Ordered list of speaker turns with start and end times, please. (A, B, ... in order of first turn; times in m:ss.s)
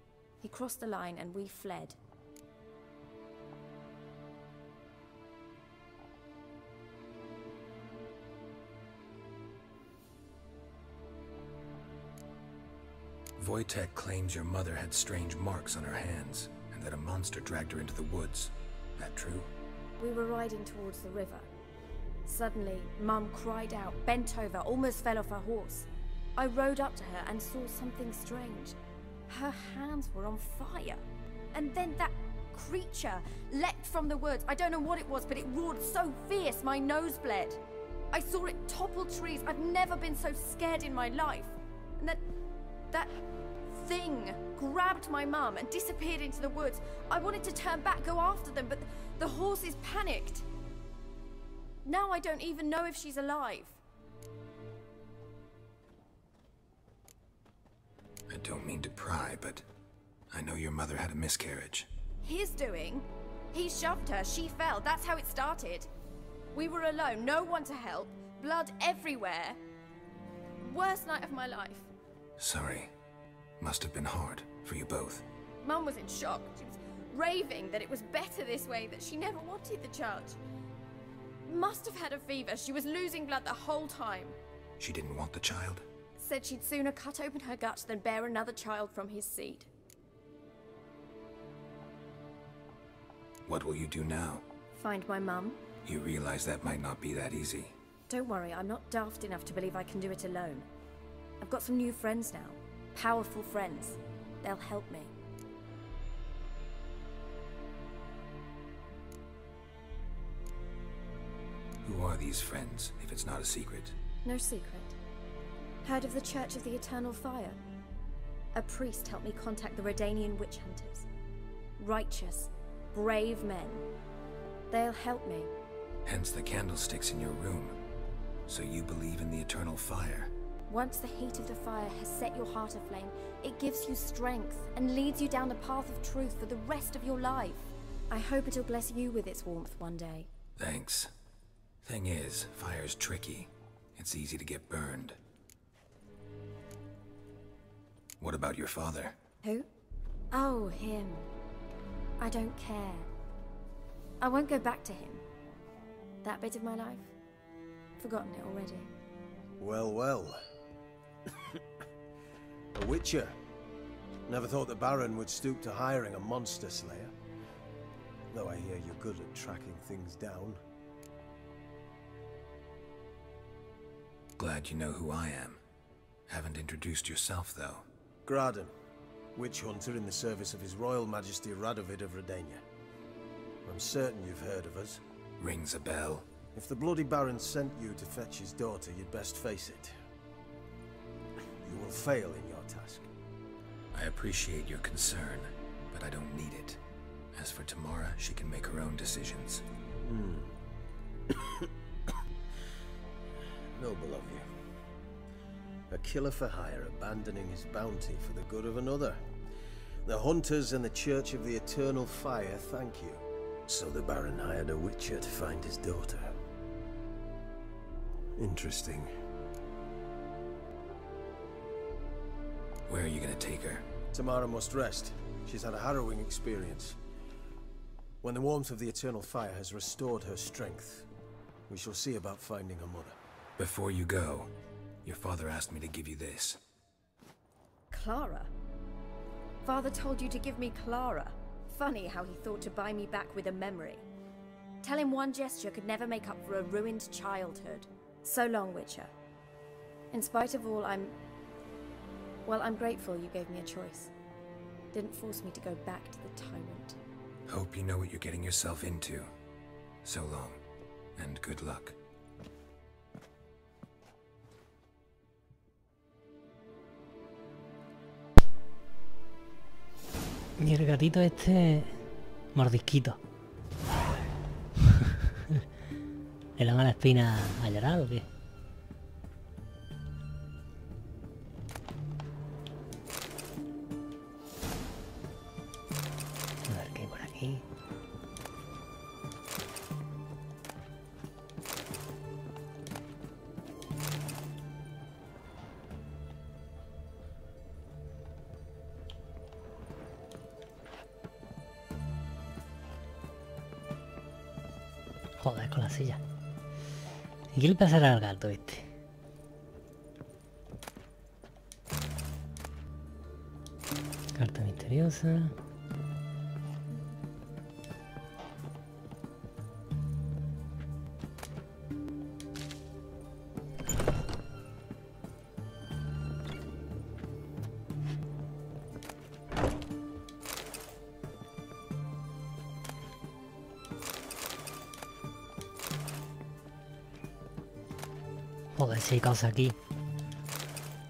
0:00.4-0:02.0 A
0:13.4-0:19.5 B
0:20.0-0:21.5 A
0:22.3-0:28.8 A
0:29.3-0:31.0 A
0:31.5-0:37.6 A
0:38.1-0:42.2 A
0:43.7-0:50.4 A
0:51.8-0:53.8 A
0:58.3-0:59.6 B
1:00.3-1:01.9 B
1:02.2-1:05.9 A
1:06.5-1:09.6 A
1:10.6-1:11.9 A
1:12.4-1:12.9 B
1:13.6-1:15.2 B
1:15.6-1:20.4 A
1:21.5-1:24.4 A
1:24.8-1:25.8 B
1:26.2-1:29.7 A
1:33.5-1:34.4 B
1:34.8-1:35.6 A
1:35.8-1:37.7 B
1:38.1-1:40.7 A
1:41.4-1:45.1 A
1:51.8-1:54.0 B
1:54.2-1:55.0 A
1:55.8-1:57.6 A
1:58.6-2:01.1 A
2:01.8-2:03.9 A
2:04.7-2:05.5 A
2:06.0-2:07.8 B
2:08.5-2:10.3 B
2:10.7-2:20.3 A
2:20.6-2:21.1 B
2:21.8-2:25.2 B
2:28.2-2:29.2 B
2:30.3-2:31.3 A
2:32.2-2:33.1 A
2:34.2-2:35.2 A
2:36.2-2:37.1 A
2:38.0-2:38.9 A
2:39.6-2:40.4 C
2:42.7-2:43.4 C
2:44.3-2:47.1 C
2:48.3-2:50.6 C
2:54.4-2:55.6 B
2:56.3-2:57.9 B
2:58.3-2:58.7 C
2:59.4-3:02.6 C
3:03.6-3:05.0 C
3:05.4-3:06.3 B
3:06.6-3:09.9 C
3:11.6-3:13.1 C
3:13.9-3:16.8 B
3:17.3-3:19.6 B
3:20.0-3:20.5 C
3:21.3-3:21.7 C
3:23.7-3:24.5 C
3:25.9-3:29.2 C
3:30.0-3:36.3 C
3:38.4-3:39.1 C
3:42.9-3:43.8 B
3:44.1-3:47.0 C
3:48.2-3:51.1 C
3:51.7-3:53.2 C
3:53.6-3:54.5 B
3:55.0-3:56.6 B
3:57.9-3:58.5 A
3:59.6-4:04.0 A
4:04.8-4:09.1 A
4:10.1-4:11.1 A
4:12.5-4:14.1 A
4:14.9-4:17.0 A
4:17.5-4:19.3 B
4:20.0-4:20.6 B
4:21.2-4:22.0 B
4:30.6-4:32.0 D
4:32.6-4:33.2 D
4:35.0-4:35.6 D
4:36.6-4:38.3 D
4:46.7-4:47.6 D
5:05.4-5:06.2 D
5:07.5-5:08.9 D
5:14.4-5:15.5 D
5:38.8-5:39.8 D